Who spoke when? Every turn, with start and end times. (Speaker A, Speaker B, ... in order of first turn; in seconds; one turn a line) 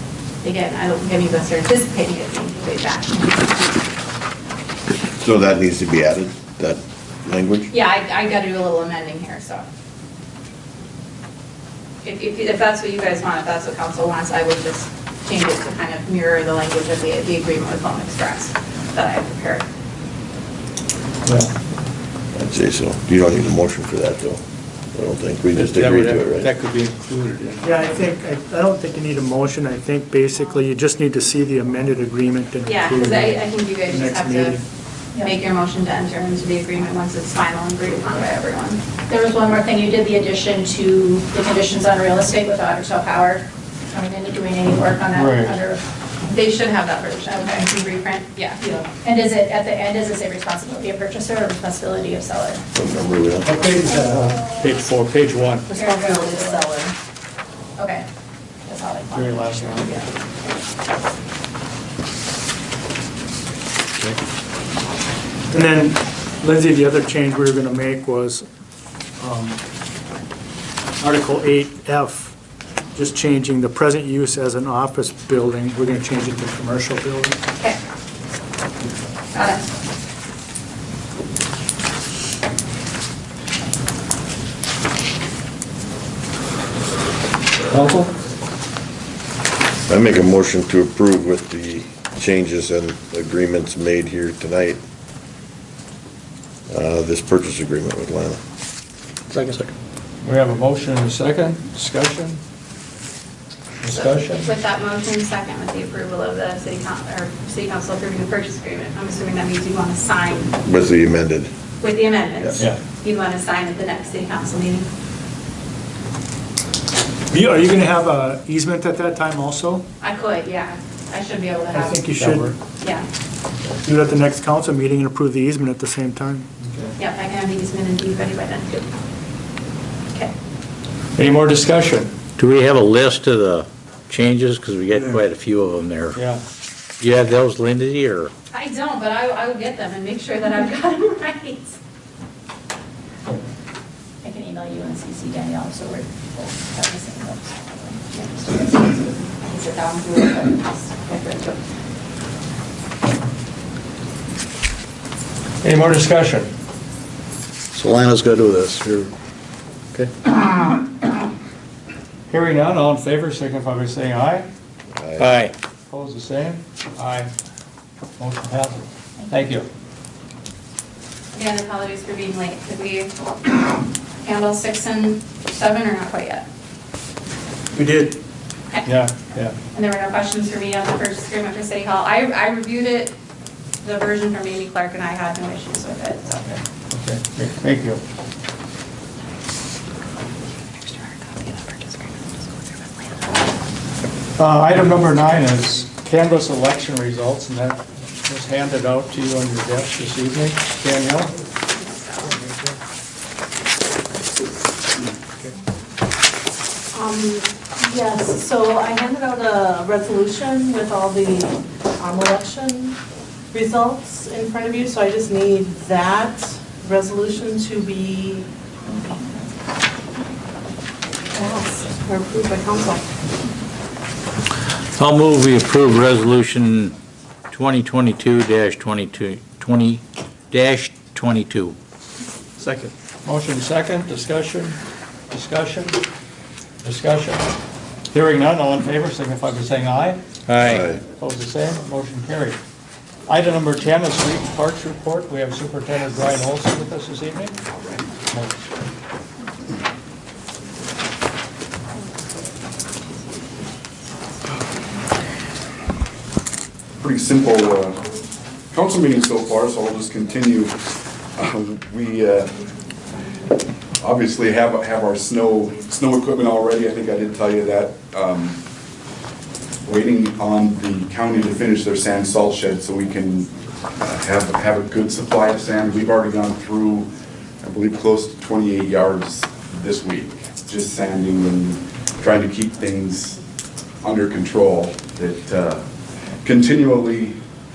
Speaker A: 0.4-3.3
Speaker B: 5.2-7.7
Speaker A: 7.7-9.6
Speaker A: 12.0-19.7
Speaker B: 22.3-24.4
Speaker B: 24.9-26.5
Speaker C: 25.5-27.7
Speaker D: 27.6-34.6
Speaker A: 32.6-34.6
Speaker A: 35.2-38.8
Speaker E: 39.1-45.8
Speaker C: 45.1-45.5
Speaker A: 46.3-48.6
Speaker E: 48.9-52.6
Speaker B: 52.7-53.5
Speaker D: 53.5-54.2
Speaker C: 54.0-55.7
Speaker A: 55.7-56.7
Speaker F: 55.7-56.9
Speaker E: 56.2-56.6
Speaker A: 57.8-58.0
Speaker A: 58.6-60.1
Speaker C: 59.1-59.9
Speaker D: 65.5-68.5
Speaker D: 69.2-69.6
Speaker D: 71.0-72.3
Speaker D: 72.9-77.4
Speaker A: 79.3-79.6
Speaker C: 87.7-88.1
Speaker B: 89.9-94.8
Speaker B: 96.7-98.4
Speaker C: 100.2-102.4
Speaker C: 103.8-104.5
Speaker A: 103.9-110.6
Speaker B: 110.6-111.5
Speaker A: 111.8-114.9
Speaker D: 117.3-119.8
Speaker A: 120.0-122.1
Speaker D: 121.7-122.6
Speaker C: 122.2-122.5
Speaker A: 122.8-123.1
Speaker D: 123.8-126.5
Speaker C: 126.6-126.9
Speaker A: 127.0-128.9
Speaker C: 131.2-132.1
Speaker G: 132.4-136.2
Speaker C: 136.1-136.4
Speaker G: 137.0-138.3
Speaker A: 138.5-141.8
Speaker E: 144.2-148.1
Speaker A: 148.1-151.6
Speaker C: 155.6-156.5
Speaker C: 162.3-164.5
Speaker B: 164.9-165.4
Speaker G: 165.2-165.5
Speaker C: 165.9-167.3
Speaker C: 168.2-169.7
Speaker A: 171.3-176.4
Speaker D: 177.7-178.2
Speaker C: 178.8-179.5
Speaker A: 179.7-183.1
Speaker A: 183.8-186.4
Speaker C: 186.4-188.0
Speaker A: 190.7-193.4
Speaker C: 194.4-201.3
Speaker A: 201.7-202.4
Speaker F: 206.9-213.0
Speaker F: 213.5-218.5
Speaker F: 221.3-223.0
Speaker G: 224.9-226.9
Speaker G: 227.5-231.8
Speaker C: 232.6-234.8
Speaker C: 235.3-236.0
Speaker C: 236.8-237.5
Speaker C: 238.1-240.2
Speaker G: 240.5-240.8
Speaker B: 240.6-241.0
Speaker C: 241.0-242.6
Speaker C: 243.3-247.6
Speaker C: 248.2-248.6
Speaker H: 257.0-258.0
Speaker H: 258.7-260.8
Speaker H: 261.3-262.5
Speaker H: 264.0-268.6
Speaker H: 269.8-283.4
Speaker H: 284.0-285.8
Speaker H: 286.4-287.4